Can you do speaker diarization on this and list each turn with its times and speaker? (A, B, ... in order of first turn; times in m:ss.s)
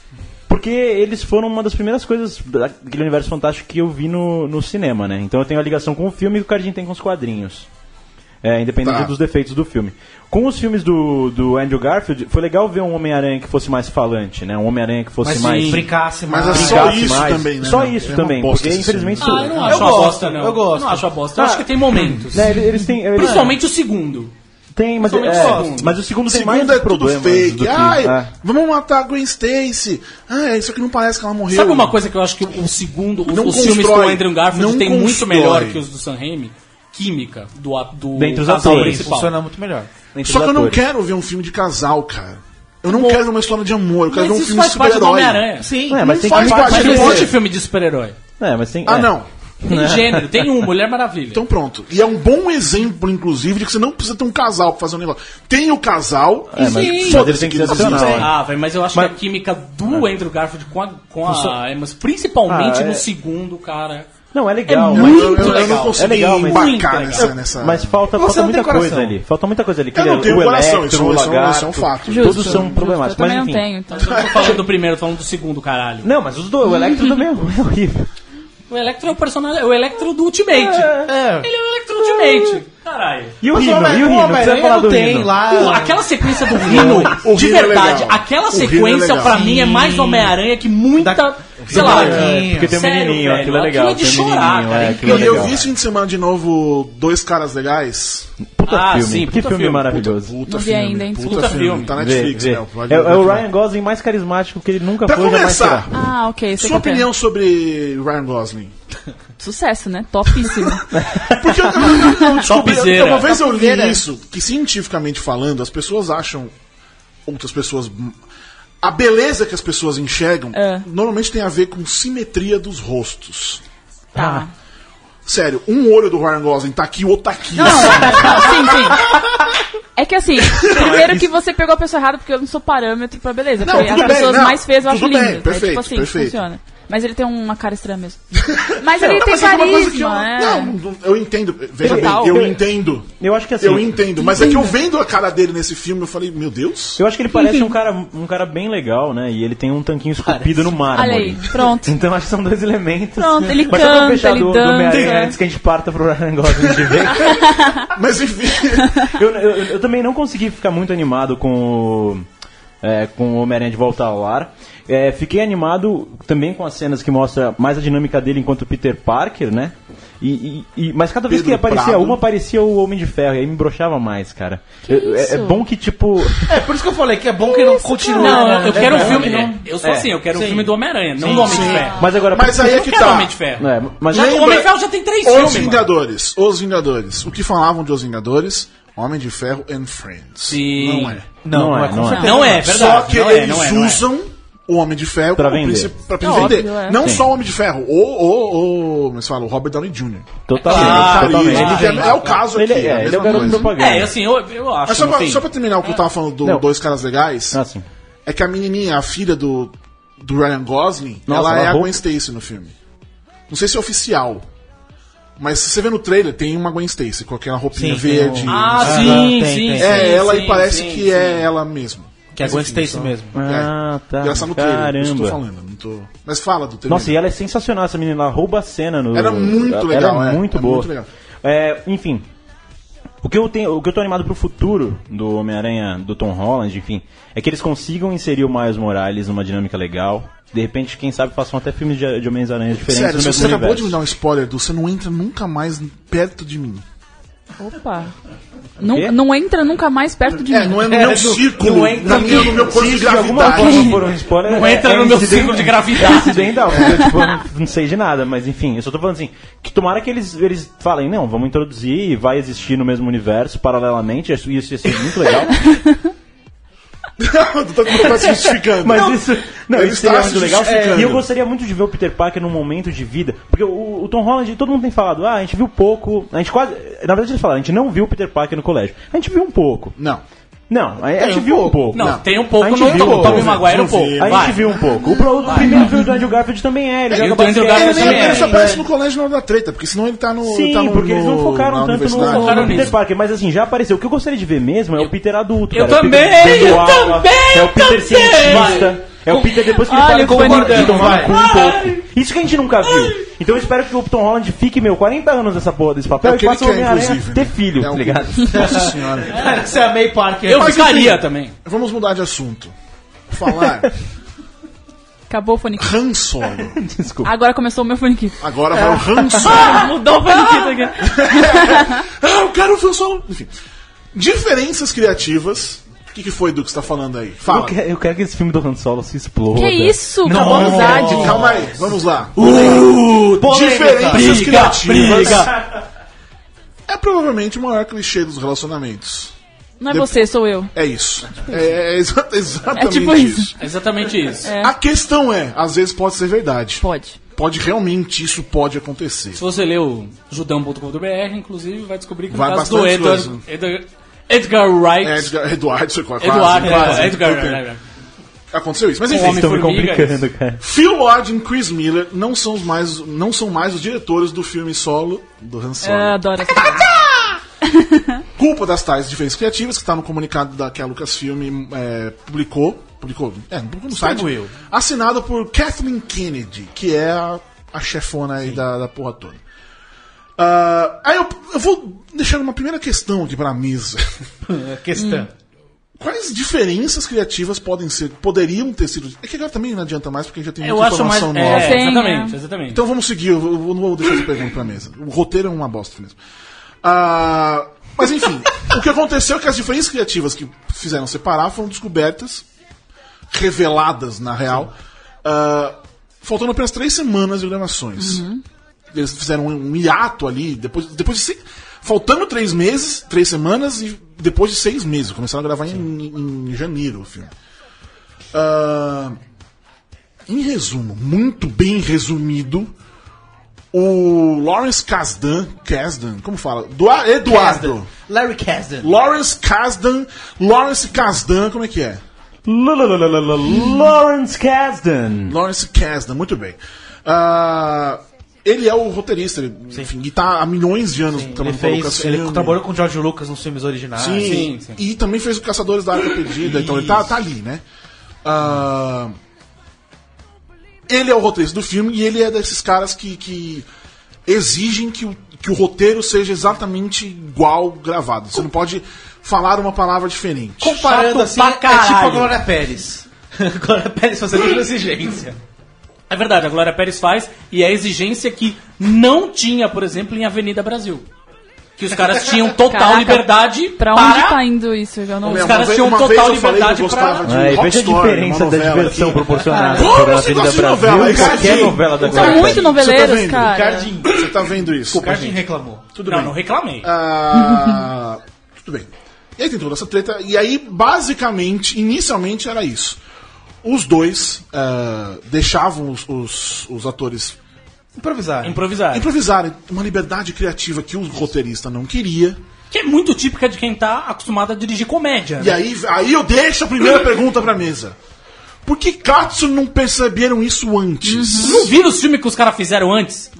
0:00.5-0:07.7 A
0:08.4-0:15.9 A
0:08.8-0:09.1 B
0:15.2-0:15.9 C
0:15.6-0:17.1 D
0:16.3-0:19.9 B
0:16.5-0:20.0 A
0:19.2-0:22.6 C
0:19.6-0:21.2 D
0:21.4-0:23.6 A
0:23.1-0:24.3 C
0:23.2-0:23.5 D
0:24.7-0:28.3 A
0:25.0-0:26.0 C
0:25.2-0:25.8 D
0:26.3-0:32.0 B
0:31.5-0:39.4 C
0:33.2-0:35.8 B
0:38.2-0:39.1 A
0:38.5-0:39.9 D
0:40.1-0:40.8 A
0:40.2-0:45.5 B
0:42.9-0:43.2 C
0:44.1-0:45.7 C
0:45.6-0:46.2 D
0:45.9-0:47.4 A
0:46.0-0:47.4 B
0:46.2-0:48.2 C
0:46.9-0:47.2 D
0:48.4-0:50.7 A
0:48.8-0:49.3 B
0:49.6-0:51.4 C
0:51.3-0:58.3 B
0:56.5-0:58.3 A
0:56.6-0:58.3 D
0:58.0-1:04.1 C
1:01.3-1:01.6 D
1:02.5-1:03.1 A
1:04.3-1:13.6 A
1:04.7-1:07.4 C
1:04.9-1:08.0 B
1:08.1-1:09.2 D
1:09.9-1:12.8 B
1:12.1-1:14.3 E
1:13.9-1:16.1 C
1:14.0-1:14.6 B
1:16.0-1:18.1 A
1:16.7-1:17.2 E
1:18.7-1:23.4 C
1:20.5-1:21.1 A
1:21.1-1:21.5 D
1:22.0-1:22.6 A
1:23.4-1:25.3 A
1:23.5-1:27.2 D
1:25.5-1:35.7 C
1:26.6-1:29.4 B
1:29.2-1:30.4 D
1:31.0-1:32.8 D
1:31.6-1:32.2 B
1:31.7-1:35.6 A
1:34.9-1:38.3 B
1:38.6-1:40.4 A
1:38.7-1:40.1 C
1:39.9-1:43.5 B
1:40.5-1:41.6 E
1:41.2-1:42.0 C
1:41.8-1:45.9 A
1:45.0-1:46.0 B
1:45.9-1:47.1 E
1:46.6-1:48.7 B
1:49.4-1:50.9 E
1:50.4-1:56.5 B
1:50.9-1:51.6 A
1:51.9-1:52.2 E
1:52.4-1:53.4 C
1:53.2-1:54.0 E
1:57.3-1:58.2 B
1:58.8-2:03.6 B
2:00.5-2:00.9 E
2:04.2-2:04.5 A
2:04.2-2:04.5 E
2:05.3-2:09.3 B
2:07.6-2:09.1 E
2:07.6-2:08.2 D
2:07.7-2:08.0 A
2:10.0-2:20.7 E
2:10.5-2:11.2 B
2:13.6-2:16.4 B
2:18.4-2:27.0 B
2:21.8-2:22.5 E
2:21.8-2:22.6 A
2:23.2-2:24.4 A
2:24.2-2:24.8 E
2:27.0-2:37.4 A
2:27.3-2:27.7 E
2:30.2-2:30.7 D
2:30.9-2:32.0 E
2:33.2-2:35.4 E
2:34.9-2:35.2 D
2:36.7-2:37.3 B
2:37.2-2:37.9 E
2:37.9-2:39.1 B
2:39.1-2:42.3 A
2:42.8-2:56.6 A
2:51.3-2:52.2 B
2:54.9-2:55.6 E
2:56.5-2:59.6 D
2:57.5-2:59.0 E
2:58.2-3:05.9 C
2:58.9-3:00.2 A
3:00.3-3:01.9 D
3:01.2-3:03.4 B
3:01.2-3:04.4 A
3:01.6-3:02.1 E
3:04.1-3:04.7 B
3:05.2-3:11.3 B
3:10.5-3:11.2 C
3:11.4-3:12.7 D
3:11.5-3:12.6 A
3:12.2-3:14.0 C
3:12.4-3:23.8 B
3:15.4-3:17.3 A
3:16.2-3:17.0 E
3:20.5-3:24.1 A
3:20.6-3:22.2 C
3:20.8-3:22.5 D
3:23.0-3:23.5 D
3:23.3-3:23.7 E
3:23.7-3:26.0 C
3:24.9-3:27.6 B
3:27.5-3:27.9 A
3:28.3-3:32.8 B
3:31.3-3:32.0 A
3:33.5-3:34.5 B
3:35.4-3:47.2 B
3:37.7-3:40.1 D
3:38.5-3:41.5 C
3:42.3-3:43.4 D
3:43.3-3:45.4 A
3:46.9-3:50.9 A
3:49.1-3:51.1 B
3:51.4-3:52.3 A
3:53.2-4:04.0 A
4:02.8-4:06.8 B
4:07.6-4:08.1 E
4:08.8-4:11.2 E
4:08.8-4:09.2 A
4:10.3-4:14.1 B
4:11.0-4:12.4 D
4:11.4-4:25.7 A
4:13.5-4:14.0 E
4:14.4-4:16.9 C
4:16.8-4:17.1 E
4:25.6-4:26.0 E
4:27.2-4:31.2 B
4:27.9-4:40.0 A
4:30.6-4:31.1 D
4:40.0-4:40.2 B
4:40.7-4:43.6 A
4:41.2-4:41.9 D
4:41.9-4:42.2 B
4:41.9-4:44.6 C
4:42.8-4:45.6 B
4:44.2-4:48.8 A
4:45.4-4:45.9 C
4:47.1-4:53.0 B
4:47.1-4:48.8 C
4:48.0-4:48.8 D
4:50.4-5:08.8 A
4:52.1-4:52.9 C
4:55.7-4:59.0 C
4:58.5-4:58.9 D
4:59.3-5:01.2 E
5:00.0-5:01.4 D
5:00.8-5:02.0 C
5:02.8-5:03.2 C
5:06.2-5:09.6 B
5:08.5-5:11.1 D
5:10.5-5:11.6 C
5:10.6-5:12.7 B
5:13.3-5:14.0 B
5:15.3-5:15.9 E
5:15.8-5:16.8 B
5:16.6-5:17.3 A
5:17.2-5:22.0 E
5:18.4-5:20.0 B
5:21.0-5:23.5 B
5:24.1-5:27.8 B
5:27.4-5:31.6 A
5:29.5-5:31.5 E
5:30.3-5:31.6 D
5:30.3-5:35.5 B
5:32.4-5:33.4 C
5:32.4-5:32.8 D
5:33.4-5:34.5 D
5:34.1-5:35.5 C
5:36.9-5:39.3 B
5:39.8-5:40.7 E
5:39.9-5:43.5 B
5:42.7-5:43.5 E
5:43.6-5:44.5 C
5:44.4-5:44.7 E
5:44.5-5:49.4 B
5:46.8-5:47.2 E
5:49.3-5:55.3 C
5:52.3-5:53.4 B
5:55.0-5:57.6 B
5:56.2-5:57.8 C
5:56.6-5:57.0 D
5:58.5-5:59.6 B
5:59.1-6:00.2 C
5:59.1-6:00.6 A
6:00.6-6:07.4 B
6:05.8-6:06.9 E
6:07.6-6:08.2 E
6:08.4-6:19.4 B
6:14.0-6:14.5 D
6:20.4-6:24.3 B
6:24.5-6:25.3 D
6:25.0-6:25.3 E
6:26.0-6:31.9 B
6:30.6-6:32.8 C
6:31.4-6:32.4 E
6:32.7-6:36.2 B
6:36.8-6:42.5 B
6:43.3-6:44.7 B
6:45.2-6:48.2 B
6:48.0-6:48.4 E
6:48.9-6:57.3 B
6:58.3-6:59.2 B
7:00.3-7:02.7 B
7:03.7-7:07.9 B
7:07.2-7:08.9 D
7:08.8-7:12.0 B
7:12.4-7:15.4 A
7:15.3-7:22.6 B
7:21.1-7:24.4 D
7:24.0-7:27.6 B
7:24.2-7:24.8 C
7:26.4-7:27.1 D
7:28.2-7:29.2 B
7:30.9-7:33.7 B
7:34.3-7:40.8 B
7:40.6-7:45.4 D
7:40.6-7:42.4 C
7:46.1-7:51.1 C
7:51.8-7:54.4 C
7:52.7-7:55.5 E
7:55.2-7:57.6 C
7:55.2-8:05.2 B
7:57.2-8:02.7 A
7:59.5-8:00.0 E
8:00.8-8:02.7 D
8:02.0-8:03.9 E
8:03.4-8:05.9 D
8:05.0-8:05.4 C
8:05.9-8:13.0 B
8:06.0-8:06.9 C
8:07.4-8:07.8 E
8:13.6-8:17.4 B
8:18.0-8:18.6 D
8:18.4-8:19.1 C
8:18.9-8:22.4 B
8:22.7-8:25.6 C
8:25.4-8:28.0 B
8:28.6-8:31.7 B
8:31.0-8:31.7 E
8:31.4-8:33.3 C